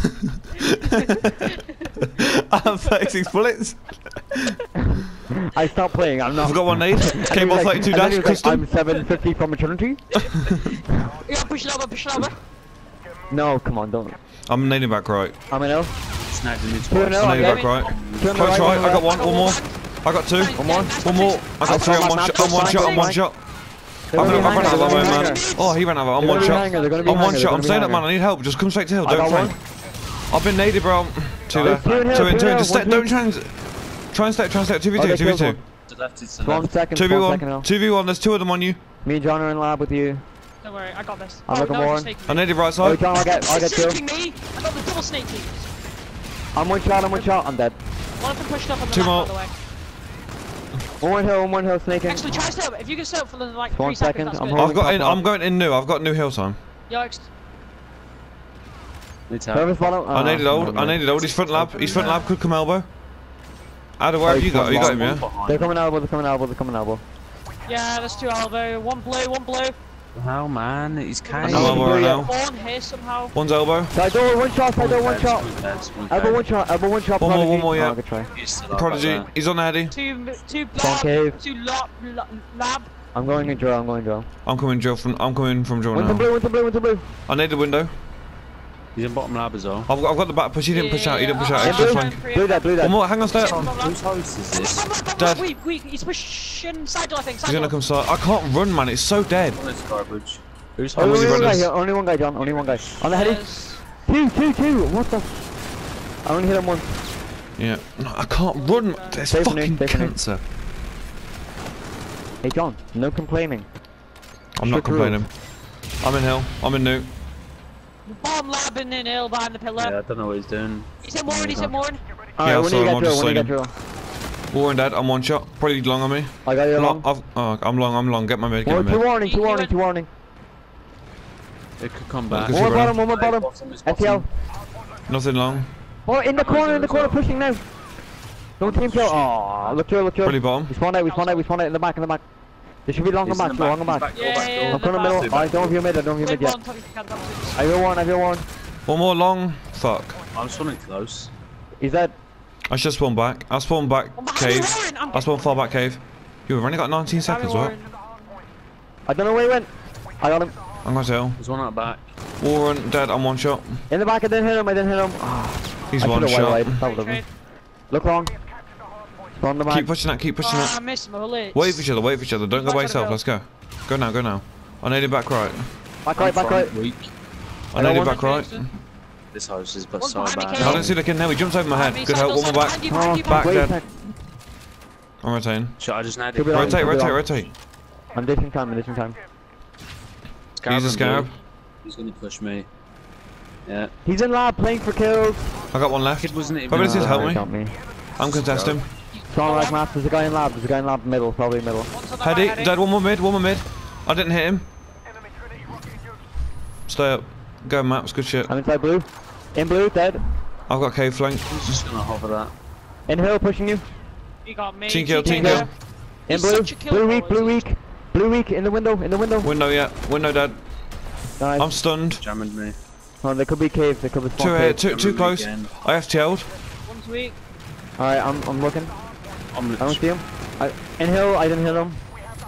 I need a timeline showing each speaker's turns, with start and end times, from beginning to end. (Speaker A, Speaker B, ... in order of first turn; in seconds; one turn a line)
Speaker A: 0.9-1.5
Speaker A: 2.2-4.6
Speaker B: 5.5-10.3
Speaker A: 6.4-8.7
Speaker C: 11.2-12.4
Speaker B: 13.3-14.2
Speaker A: 14.4-15.4
Speaker B: 15.5-15.9
Speaker D: 16.2-18.9
Speaker B: 16.9-17.6
Speaker A: 17.2-23.4
Speaker C: 17.4-17.9
Speaker B: 18.2-19.1
Speaker C: 18.9-23.1
Speaker B: 20.6-20.9
Speaker B: 21.6-23.2
Speaker B: 24.1-25.4
Speaker A: 24.1-29.6
Speaker C: 24.2-27.4
Speaker B: 26.1-28.1
Speaker B: 29.0-29.6
Speaker A: 30.3-35.6
Speaker D: 31.5-32.3
Speaker B: 31.6-33.1
Speaker B: 34.9-35.6
Speaker D: 35.9-36.8
Speaker B: 36.4-37.7
Speaker A: 36.9-38.8
Speaker B: 39.0-40.2
Speaker C: 40.6-42.5
Speaker B: 41.5-42.1
Speaker A: 42.3-43.0
Speaker B: 42.8-44.0
Speaker C: 43.1-45.7
Speaker B: 46.5-47.8
Speaker C: 48.2-49.5
Speaker A: 48.9-49.4
Speaker B: 51.0-52.4
Speaker C: 52.0-54.7
Speaker B: 53.7-55.2
Speaker A: 54.5-56.6
Speaker C: 56.9-57.3
Speaker D: 59.3-59.9
Speaker B: 59.5-61.0
Speaker A: 60.1-62.9
Speaker D: 61.4-62.2
Speaker C: 61.8-62.3
Speaker A: 64.0-65.2
Speaker B: 64.2-67.0
Speaker D: 64.6-65.8
Speaker C: 67.6-69.8
Speaker D: 70.1-71.8
Speaker C: 71.3-73.3
Speaker A: 71.4-72.3
Speaker B: 71.4-72.3
Speaker A: 73.3-74.0
Speaker B: 73.9-75.5
Speaker D: 74.7-76.5
Speaker B: 76.1-78.3
Speaker A: 77.2-78.0
Speaker D: 78.3-79.3
Speaker A: 78.7-79.9
Speaker C: 79.9-82.9
Speaker B: 80.8-81.4
Speaker B: 83.1-84.3
Speaker A: 84.4-86.3
Speaker B: 85.9-87.0
Speaker A: 87.3-87.9
Speaker D: 88.9-89.9
Speaker A: 89.9-92.2
Speaker C: 90.7-97.8
Speaker B: 91.6-93.0
Speaker A: 92.8-93.7
Speaker D: 93.4-94.8
Speaker A: 95.2-95.5
Speaker A: 97.4-99.6
Speaker D: 99.5-101.7
Speaker A: 100.9-101.7
Speaker B: 100.9-105.4
Speaker D: 102.7-103.0
Speaker C: 103.0-103.8
Speaker B: 106.2-107.0
Speaker A: 107.6-110.4
Speaker C: 108.5-109.2
Speaker B: 109.3-110.2
Speaker B: 112.4-113.7
Speaker A: 114.5-117.1
Speaker B: 114.6-115.2
Speaker C: 118.0-120.0
Speaker D: 119.8-121.8
Speaker C: 121.0-122.0
Speaker B: 122.4-123.7
Speaker A: 122.4-123.6
Speaker A: 124.5-129.0
Speaker B: 126.4-127.1
Speaker B: 128.6-130.1
Speaker C: 129.2-129.7
Speaker D: 131.8-134.2
Speaker A: 132.3-133.0
Speaker B: 132.5-134.2
Speaker A: 135.1-135.7
Speaker B: 136.1-137.7
Speaker D: 136.3-137.3
Speaker B: 138.6-142.2
Speaker D: 138.6-139.8
Speaker A: 140.2-140.7
Speaker C: 141.0-141.5
Speaker B: 142.8-146.6
Speaker D: 143.2-145.8
Speaker C: 144.1-145.3
Speaker C: 146.2-147.6
Speaker B: 147.6-148.4
Speaker A: 148.8-150.1
Speaker D: 150.3-151.3
Speaker B: 151.8-152.2
Speaker A: 152.7-157.7
Speaker C: 154.2-155.7
Speaker C: 157.2-158.0
Speaker B: 159.1-160.5
Speaker A: 160.8-161.4
Speaker D: 161.4-162.1
Speaker A: 162.4-163.8
Speaker B: 163.9-167.3
Speaker A: 165.9-166.8
Speaker C: 166.7-167.3
Speaker B: 167.9-168.3
Speaker B: 169.3-169.9
Speaker A: 169.7-170.9
Speaker C: 170.4-171.9
Speaker A: 171.5-175.7
Speaker C: 172.5-173.2
Speaker B: 176.0-176.7
Speaker D: 176.2-177.1
Speaker A: 177.7-178.7
Speaker C: 177.8-178.7
Speaker B: 177.8-178.0
Speaker D: 179.3-181.0
Speaker C: 180.0-180.9
Speaker A: 180.6-184.0
Speaker C: 181.7-183.6
Speaker B: 182.9-183.9
Speaker A: 185.2-185.8
Speaker D: 185.8-187.0
Speaker B: 186.3-187.2
Speaker A: 186.5-187.5
Speaker B: 188.1-189.2
Speaker D: 190.6-191.3
Speaker A: 190.7-191.3
Speaker D: 191.8-192.7
Speaker D: 193.7-193.9
Speaker B: 194.0-195.4
Speaker A: 195.7-197.5
Speaker D: 196.2-197.4
Speaker B: 196.7-197.8
Speaker A: 198.2-198.9
Speaker D: 198.2-198.8
Speaker C: 199.1-199.8
Speaker B: 199.3-201.9
Speaker C: 201.9-202.7
Speaker A: 202.2-204.6
Speaker A: 206.9-208.5
Speaker B: 208.5-210.2
Speaker A: 210.7-211.8
Speaker D: 211.5-212.5
Speaker B: 213.1-213.8
Speaker C: 214.4-215.7
Speaker A: 214.9-215.7
Speaker B: 215.2-215.7
Speaker B: 216.2-219.5
Speaker C: 216.3-217.6
Speaker A: 219.4-220.6
Speaker B: 221.4-221.7
Speaker A: 221.6-222.2
Speaker D: 222.1-222.8
Speaker B: 223.2-224.8
Speaker A: 224.3-226.5
Speaker D: 224.9-225.7
Speaker C: 226.8-227.3
Speaker B: 228.0-228.9
Speaker D: 229.5-230.1
Speaker B: 229.8-232.0